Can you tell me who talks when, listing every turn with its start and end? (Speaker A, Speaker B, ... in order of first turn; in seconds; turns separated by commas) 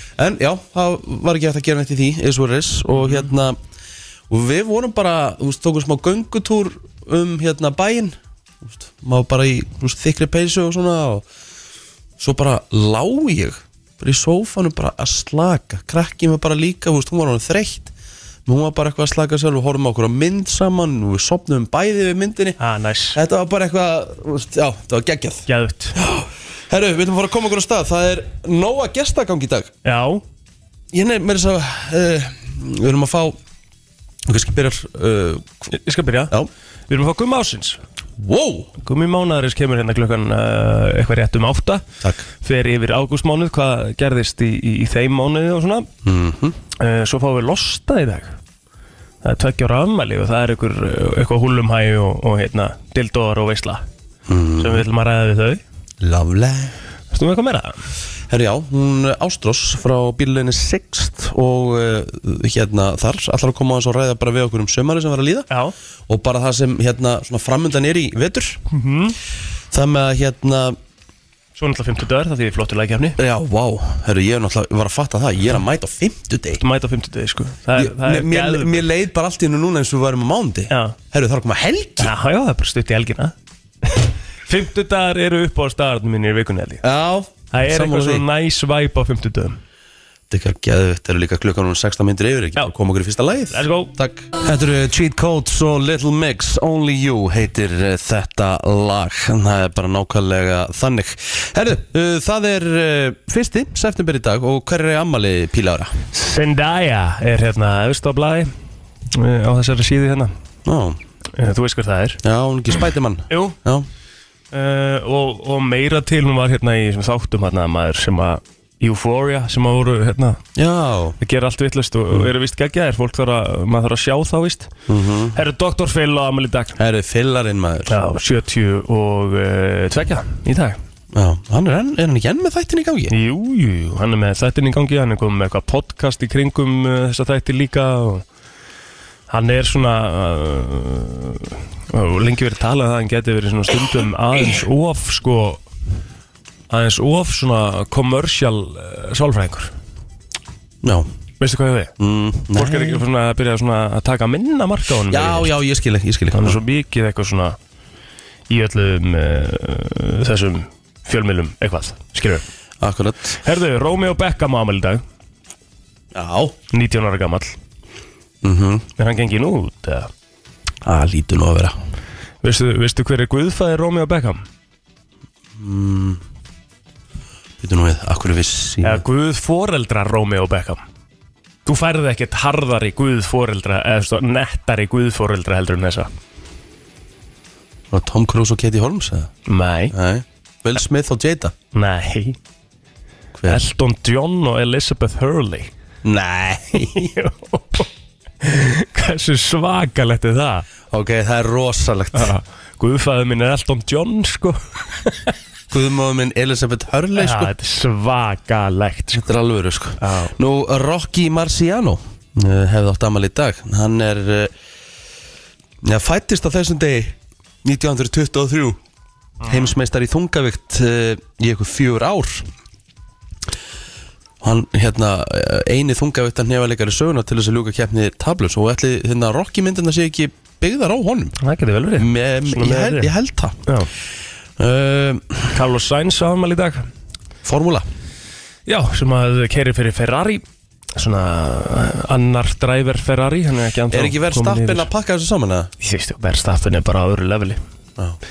Speaker A: 0.2-3.6, Speaker B: 3.0-3.3, Speaker A: 4.3-11.2, Speaker A: 12.2-17.9, Speaker A: 18.5-22.6, Speaker B: 22.6-23.2, Speaker A: 23.1-29.7, Speaker B: 25.5-26.0, Speaker B: 29.8-30.2, Speaker A: 30.9-33.4, Speaker A: 34.3-35.7, Speaker B: 35.7-36.3, Speaker B: 36.9-37.8, Speaker A: 38.2-38.7, Speaker B: 38.8-41.9, Speaker A: 42.0-42.3, Speaker B: 42.4-45.9, Speaker A: 46.0-46.6, Speaker B: 46.8-48.4, Speaker B: 49.2-53.9, Speaker A: 54.3-54.9, Speaker B: 54.6-55.6, Speaker A: 56.0-56.7, Speaker B: 57.1-57.8, Speaker A: 58.3-65.5, Speaker A: 66.1-68.6, Speaker B: 68.7-69.2, Speaker A: 69.7-70.8, Speaker B: 71.6-73.2, Speaker A: 73.2-76.6, Speaker B: 76.6-78.8, Speaker A: 77.7-82.1, Speaker B: 80.7-81.0, Speaker B: 82.0-86.8, Speaker A: 86.8-88.2, Speaker B: 87.5-89.6, Speaker A: 90.3-105.9, Speaker B: 93.5-94.0, Speaker B: 106.1-108.5, Speaker B: 109.1-110.3, Speaker A: 110.7-111.0, Speaker B: 111.4-112.2, Speaker A: 112.2-113.9, Speaker B: 113.3-113.6, Speaker B: 114.5-120.4, Speaker A: 120.6-121.2, Speaker B: 121.2-124.7, Speaker A: 124.9-125.4, Speaker B: 125.3-126.8, Speaker A: 126.8-128.0, Speaker B: 127.9-130.8, Speaker A: 131.1-133.1, Speaker B: 133.1-138.2, Speaker B: 139.3-145.6, Speaker B: 146.7-149.7, Speaker A: 150.8-151.1, Speaker B: 151.4-151.9, Speaker A: 152.0-153.0, Speaker B: 152.5-155.6, Speaker A: 155.1-156.6, Speaker B: 156.3-157.6, Speaker B: 158.5-162.4, Speaker A: 162.8-163.4, Speaker B: 163.4-165.0, Speaker A: 166.1-166.6, Speaker B: 166.7-167.6, Speaker A: 168.4-168.9, Speaker B: 169.0-170.1, Speaker A: 170.8-171.8, Speaker B: 172.4-174.4, Speaker A: 175.6-176.2, Speaker A: 177.6-179.0, Speaker B: 178.8-180.8, Speaker B: 181.7-186.1, Speaker A: 187.9-189.3, Speaker B: 189.5-189.9, Speaker A: 189.9-191.5, Speaker B: 191.7-192.4, Speaker A: 193.4-193.6, Speaker B: 193.5-195.7, Speaker A: 196.0-197.1, Speaker B: 196.8-197.9, Speaker B: 198.4-200.7, Speaker A: 200.9-202.3, Speaker B: 202.1-205.3, Speaker A: 205.7-207.5, Speaker B: 207.2-209.3, Speaker A: 209.1-214.5, Speaker B: 210.0-210.3, Speaker A: 215.8-218.8, Speaker A: 219.5-222.5, Speaker A: 224.4-231.4, Speaker B: 231.4-233.1, Speaker A: 232.0-233.6, Speaker A: 234.6-235.5, Speaker B: 235.5-236.8, Speaker A: 237.4-237.9, Speaker B: 238.7-240.4, Speaker B: 241.0-244.9, Speaker A: 243.9-245.7, Speaker B: 245.8-247.6